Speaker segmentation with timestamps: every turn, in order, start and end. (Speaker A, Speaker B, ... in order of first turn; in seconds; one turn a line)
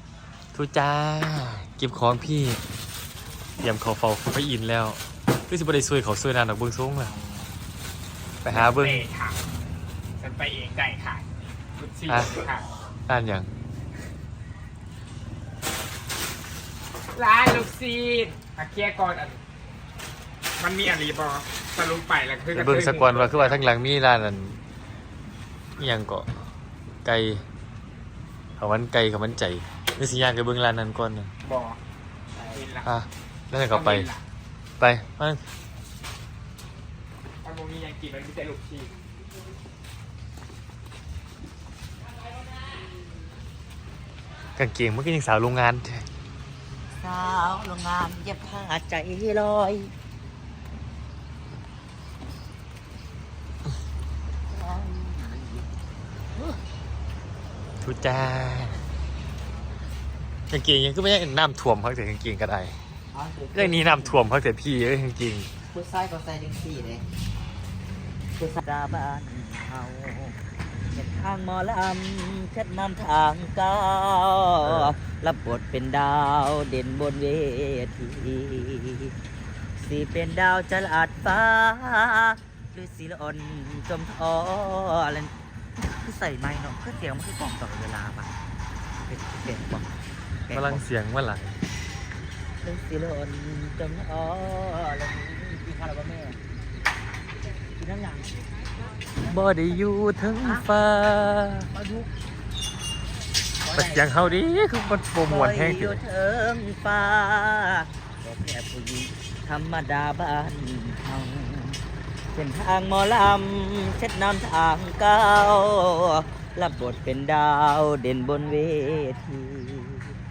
Speaker A: 0.5-2.6
Speaker A: 3.6-7.1
Speaker A: 8.4-9.0
Speaker B: 8.5-9.4
Speaker B: 10.2-12.7
Speaker A: 12.1-12.4
Speaker A: 13.1-13.5
Speaker B: 17.1-19.4
Speaker B: 20.6-23.7
Speaker A: 22.5-24.6
Speaker A: 25.8-26.3
Speaker A: 27.0-27.4
Speaker A: 28.6-31.3
Speaker B: 31.4-31.8
Speaker C: 32.4-32.7
Speaker B: 32.5-32.9
Speaker A: 32.8-34.1
Speaker B: 33.5-34.2
Speaker A: 34.8-35.4
Speaker B: 37.4-38.9
Speaker A: 44.6-46.0
Speaker C: 47.0-49.9
Speaker C: 54.5-55.7
Speaker A: 57.8-58.8
Speaker A: 60.5-62.8
Speaker C: 63.1-64.2
Speaker A: 63.5-65.5
Speaker C: 65.7-67.0
Speaker C: 68.4-70.4
Speaker C: 70.9-79.1
Speaker A: 74.7-74.9
Speaker C: 79.8-88.3
Speaker C: 89.0-90.8
Speaker A: 90.5-91.6
Speaker C: 92.6-96.4
Speaker C: 97.8-98.4
Speaker A: 99.2-101.7
Speaker C: 100.4-100.7
Speaker C: 101.7-102.1
Speaker C: 103.6-104.1
Speaker A: 103.7-106.0
Speaker C: 105.2-111.8
Speaker C: 112.3-120.1